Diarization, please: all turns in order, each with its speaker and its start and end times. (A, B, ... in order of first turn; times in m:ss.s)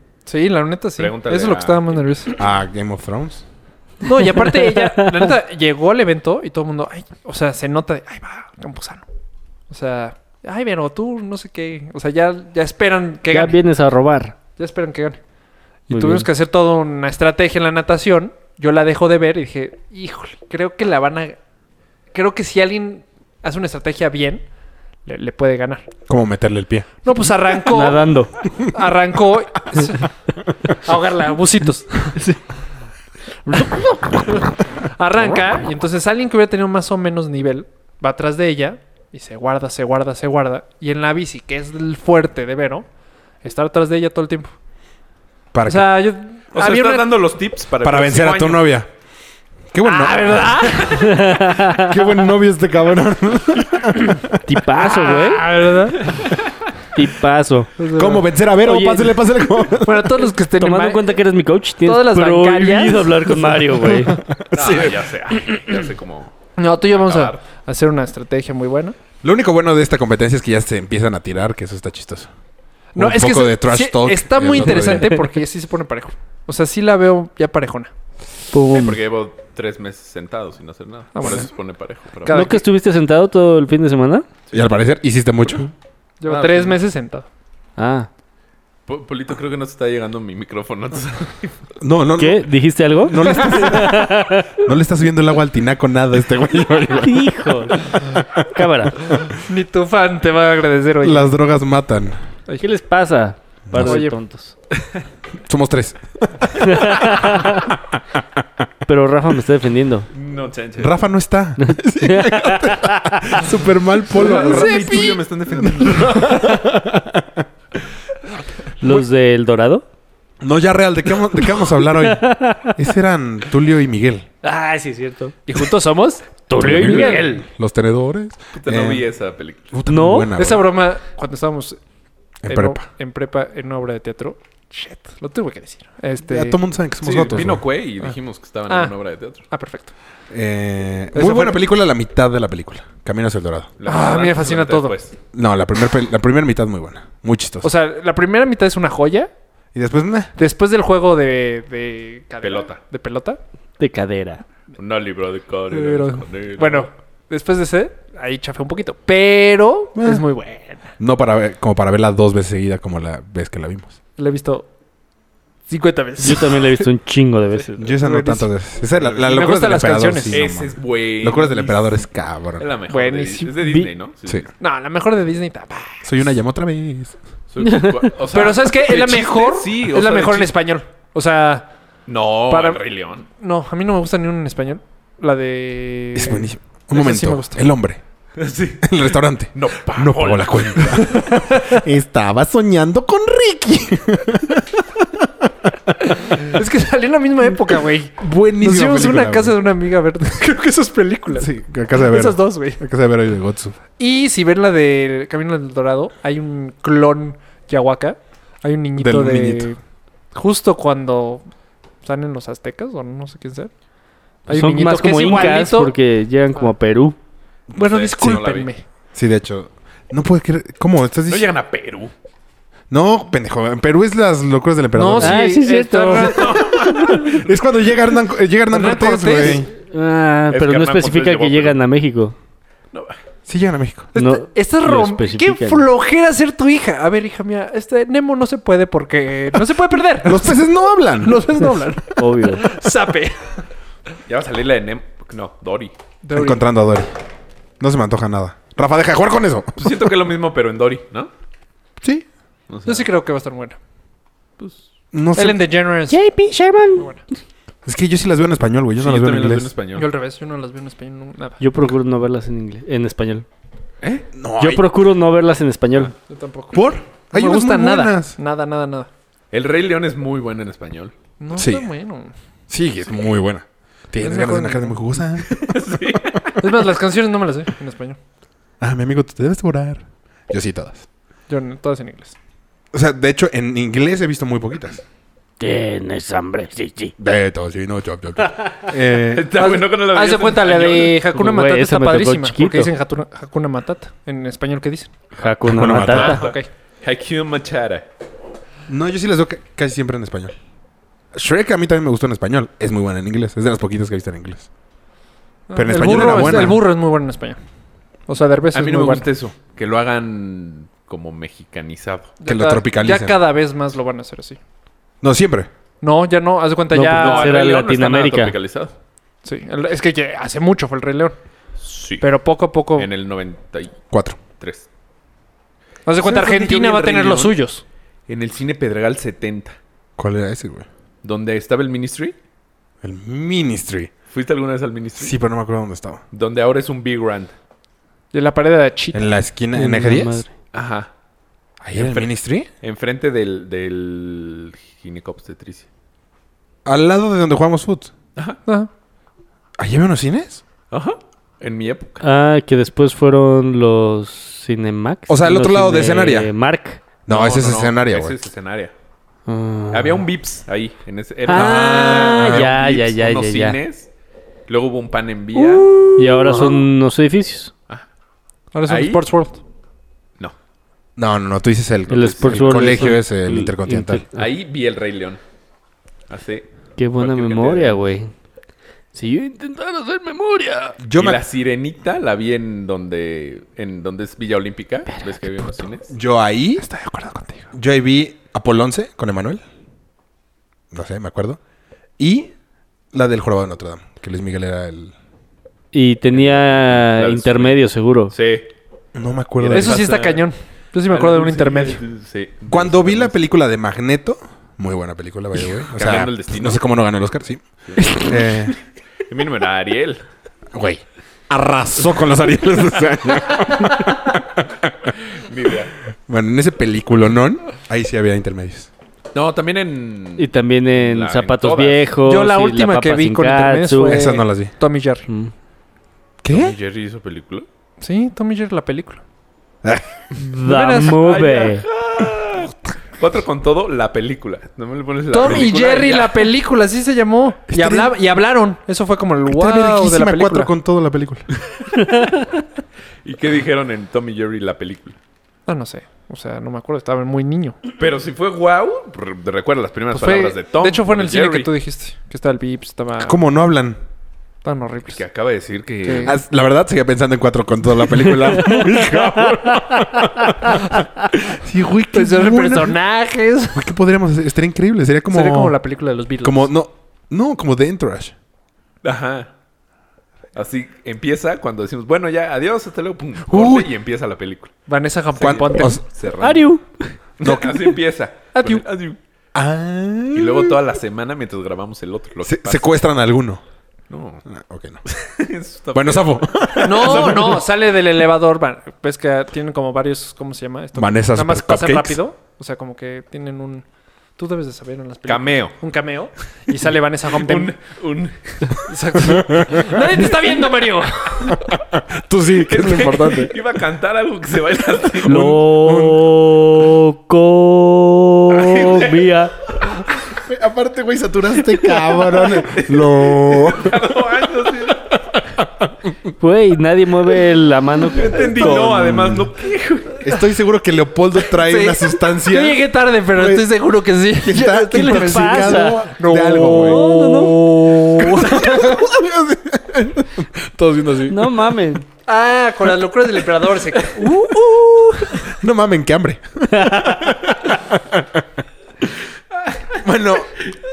0:00.3-0:02.3 A
0:01.0-0:02.0 B
0:02.4-0:03.4 C
0:04.0-0:09.0 A
0:09.7-0:13.6 A
0:13.3-0:14.4 D
0:14.6-0:15.2 A
0:15.9-0:21.4 A
0:15.9-0:16.3 D
0:22.1-0:24.4 A
0:25.1-0:25.9 A
0:26.1-0:26.9 C
0:27.0-0:30.1 A
0:27.7-0:28.3 D
0:30.7-0:32.2 A
0:33.4-0:42.9 A
0:43.4-0:44.5 A
0:45.5-0:46.0 C
0:45.7-0:47.2 A
0:46.5-0:48.7 B
0:47.8-0:48.9 C
0:49.7-0:50.8 C
0:49.8-0:51.4 A
0:50.9-0:51.9 D
0:51.8-0:54.4 C
0:54.4-0:55.5 D
0:54.8-0:56.2 A
0:56.9-0:57.7 D
0:57.8-0:58.3 A
0:57.9-1:00.3 C
0:58.6-0:59.2 D
0:59.8-1:01.2 A
1:00.6-1:04.2 D
1:01.8-1:04.0 A
1:04.1-1:05.0 C
1:04.5-1:06.3 B
1:06.6-1:09.0 A
1:06.9-1:07.4 B
1:09.2-1:12.3 C
1:13.0-1:17.9 A
1:13.0-1:15.2 C
1:18.5-1:19.0 D
1:18.7-1:22.5 B
1:21.2-1:21.5 A
1:22.2-1:22.6 A
1:22.3-1:24.3 D
1:24.5-1:25.7 C
1:26.2-1:27.3 A
1:26.3-1:26.8 B
1:27.8-1:28.1 D
1:28.9-1:31.5 B
1:31.8-1:37.3 C
1:32.2-1:34.5 D
1:37.0-1:39.0 D
1:39.4-1:41.3 A
1:41.0-1:42.2 C
1:42.6-1:44.5 D
1:43.7-1:44.0 C
1:43.8-1:44.2 A
1:45.5-1:46.8 C
1:46.6-1:47.7 D
1:48.9-1:50.1 D
1:50.1-1:51.0 B
1:50.8-1:57.4 C
1:51.6-1:53.4 D
1:54.2-1:56.5 B
1:54.2-1:55.2 A
1:58.8-1:59.8 D
2:00.4-2:04.3 C
2:02.1-2:02.8 D
2:04.4-2:05.4 D
2:05.5-2:07.4 A
2:06.5-2:07.4 D
2:06.6-2:09.1 C
2:08.6-2:09.7 B
2:09.7-2:10.7 C
2:09.9-2:10.3 D
2:10.4-2:11.8 A
2:12.4-2:12.8 C
2:12.5-2:16.6 A
2:16.3-2:17.6 C
2:17.0-2:19.5 B
2:19.5-2:19.9 A
2:20.3-2:23.7 C
2:21.1-2:21.6 A
2:23.8-2:25.2 B
2:23.8-2:25.0 A
2:25.3-2:27.7 C
2:27.6-2:29.3 A
2:29.8-2:30.3 C
2:30.4-2:33.4 A
2:32.4-2:32.8 B
2:33.8-2:34.4 D
2:34.8-2:36.9 B
2:35.7-2:40.9 A
2:40.0-2:40.2 C
2:41.0-2:43.9 C
2:44.2-2:44.7 A
2:45.7-2:46.8 A
2:46.2-2:48.0 D
2:47.8-2:52.7 C
2:48.0-2:48.5 A
2:49.0-2:49.2 B
2:49.2-2:50.4 A
2:50.3-2:52.0 B
2:52.6-2:54.5 B
2:52.9-2:53.5 A
2:53.6-2:53.9 D
2:54.6-2:56.1 A
2:56.0-2:57.2 C
2:57.5-3:00.5 B
2:57.6-2:58.1 D
2:58.3-3:01.7 A
3:02.1-3:03.3 B
3:02.5-3:02.8 A
3:03.4-3:07.6 A
3:06.2-3:08.0 C
3:08.4-3:11.2 B
3:08.8-3:15.7 C
3:11.1-3:11.8 A
3:16.2-3:22.8 A
3:18.2-3:19.6 C
3:21.3-3:23.8 C
3:24.0-3:29.8 A
3:29.0-3:29.7 C
3:30.3-3:31.4 A
3:32.0-3:33.7 A
3:34.5-3:36.0 A
3:34.5-3:37.2 D
3:37.7-3:38.7 B
3:37.8-3:38.8 A
3:39.2-3:41.5 C
3:41.3-3:42.1 B
3:42.9-3:45.5 C
3:44.9-3:47.4 A
3:45.2-3:46.4 D
3:46.1-3:47.6 B
3:46.5-3:49.7 C
3:48.7-3:49.7 A
3:49.4-3:52.4 D
3:50.5-3:51.8 B
3:53.5-3:54.1 C
3:54.1-4:00.6 A
3:54.2-3:55.8 D
4:00.2-4:01.5 C
4:01.2-4:03.4 A
4:02.2-4:02.6 D
4:04.3-4:05.9 B
4:06.2-4:06.7 A
4:06.3-4:07.1 C
4:07.8-4:10.0 C
4:09.8-4:11.3 B
4:12.7-4:13.1 B
4:12.9-4:13.8 A
4:15.1-4:15.6 C
4:15.4-4:16.2 A
4:16.1-4:17.1 D
4:17.9-4:19.7 C
4:19.0-4:20.1 B
4:20.0-4:21.6 A
4:21.6-4:23.5 D
4:24.3-4:24.9 C
4:24.6-4:26.1 D
4:26.3-4:29.1 A
4:26.7-4:28.4 C
4:29.5-4:31.1 B
4:31.4-4:32.3 A
4:31.5-4:31.9 C
4:32.7-4:36.2 C
4:34.2-4:35.0 A
4:35.5-4:36.6 B
4:36.6-4:38.2 A
4:38.8-4:41.1 C
4:41.5-4:42.4 A
4:42.9-4:45.0 C
4:45.6-4:47.2 D
4:47.2-4:49.6 C
4:49.3-4:51.3 B
4:49.6-4:55.1 A
4:51.3-4:52.9 D
4:55.4-4:56.4 D
4:55.6-4:56.4 C
4:56.1-4:56.7 A
4:56.1-4:58.1 B
4:58.9-5:00.6 C
5:01.3-5:04.7 C
5:05.7-5:07.6 A
5:05.8-5:06.9 C
5:06.3-5:06.7 B
5:08.3-5:09.3 A
5:08.7-5:12.4 B
5:12.4-5:14.6 A
5:12.4-5:13.4 C
5:15.2-5:15.7 C
5:16.0-5:17.6 A
5:16.9-5:18.6 D
5:17.2-5:18.9 B
5:19.4-5:21.4 A
5:21.8-5:22.3 B
5:22.2-5:23.1 A
5:23.0-5:24.0 B
5:24.1-5:24.4 C
5:24.6-5:24.9 B
5:26.1-5:27.8 A
5:26.2-5:27.6 B
5:28.3-5:29.8 B
5:30.2-5:30.9 C
5:31.2-5:32.4 B
5:33.0-5:34.1 C
5:34.3-5:35.4 B
5:35.2-5:36.2 C
5:36.3-5:37.5 B
5:38.3-5:39.3 A
5:39.1-5:40.4 C
5:39.7-5:40.5 D
5:40.7-5:41.1 B
5:41.8-5:42.7 C
5:41.9-5:45.9 B
5:46.8-5:48.1 C
5:49.8-5:50.6 C
5:50.9-5:52.2 B
5:52.2-5:57.0 D
5:55.3-5:56.5 C
5:57.3-5:58.4 C
5:57.3-5:58.9 B
5:59.5-6:00.2 D
5:59.9-6:04.1 B
6:01.5-6:03.8 D
6:01.5-6:02.7 C
6:04.7-6:06.6 B
6:06.2-6:07.7 D
6:08.7-6:09.6 A
6:08.9-6:09.2 B
6:11.2-6:14.2 C
6:12.1-6:14.4 D
6:12.2-6:13.1 B
6:14.4-6:15.4 B
6:16.3-6:18.0 B
6:17.0-6:18.3 D
6:19.1-6:21.0 D
6:21.0-6:21.4 C
6:21.2-6:26.1 B
6:26.1-6:26.9 C
6:26.8-6:27.7 A
6:27.7-6:29.6 C
6:30.9-6:31.6 C
6:32.2-6:32.5 C
6:33.1-6:35.1 C
6:35.9-6:38.3 D
6:36.3-6:38.7 B
6:39.2-6:40.1 C
6:39.6-6:40.5 B
6:39.7-6:42.0 A
6:41.1-6:43.4 B
6:42.7-6:48.8 C
6:45.6-6:46.8 B
6:47.9-6:48.3 B
6:49.3-6:50.2 B
6:50.7-6:55.1 C
6:55.3-6:56.0 B
6:56.3-6:58.9 C
6:59.3-7:02.1 B
7:00.4-7:04.2 D
7:02.2-7:05.3 A
7:04.1-7:04.7 C
7:06.4-7:06.8 C
7:06.5-7:07.7 B
7:08.0-7:09.2 A
7:09.8-7:10.3 C
7:10.4-7:11.8 D
7:10.6-7:11.7 A
7:11.3-7:16.5 B
7:15.3-7:20.7 A
7:17.7-7:18.1 C
7:19.5-7:21.5 C
7:23.2-7:25.2 B
7:25.7-7:27.8 A
7:28.0-7:31.7 B
7:30.1-7:33.4 A
7:33.2-7:34.0 C
7:34.6-7:35.2 A
7:35.1-7:36.4 B
7:36.0-7:36.4 A
7:36.2-7:43.0 C
7:39.7-7:40.7 D
7:42.1-7:43.9 A
7:43.7-7:45.8 C
7:45.3-7:46.7 A
7:46.4-7:48.3 C
7:49.0-7:49.5 B
7:50.6-7:54.7 B
7:53.5-7:53.9 C
7:54.9-7:56.0 A
7:55.4-7:56.7 B
7:55.4-7:56.0 C
7:56.4-7:57.2 D
7:57.4-7:59.2 B
7:57.4-7:57.9 C
7:58.6-7:58.8 A
7:59.5-8:00.8 C
8:00.3-8:03.0 B
8:02.4-8:03.6 C
8:04.1-8:04.4 B
8:04.5-8:05.0 C
8:05.1-8:07.6 B
8:05.9-8:07.6 C
8:06.8-8:13.8 A
8:11.0-8:12.2 C
8:14.4-8:17.8 A
8:15.3-8:15.8 B
8:17.3-8:18.8 B
8:18.9-8:21.6 A
8:19.3-8:19.8 C
8:21.5-8:23.6 C
8:22.6-8:25.6 B
8:25.2-8:26.4 C
8:25.3-8:29.5 D
8:28.5-8:29.3 B
8:30.3-8:34.0 C
8:31.9-8:35.1 B
8:36.4-8:39.0 D
8:38.1-8:40.3 B
8:38.6-8:39.5 C
8:40.2-8:43.7 C
8:41.6-8:49.2 A
8:44.4-8:47.1 C
8:44.9-8:46.1 D
8:46.7-8:47.7 D
8:48.0-8:51.6 C
8:51.3-8:52.1 D
8:52.3-8:55.4 A
8:55.4-8:58.4 C
8:56.7-8:57.2 D
9:00.0-9:00.6 C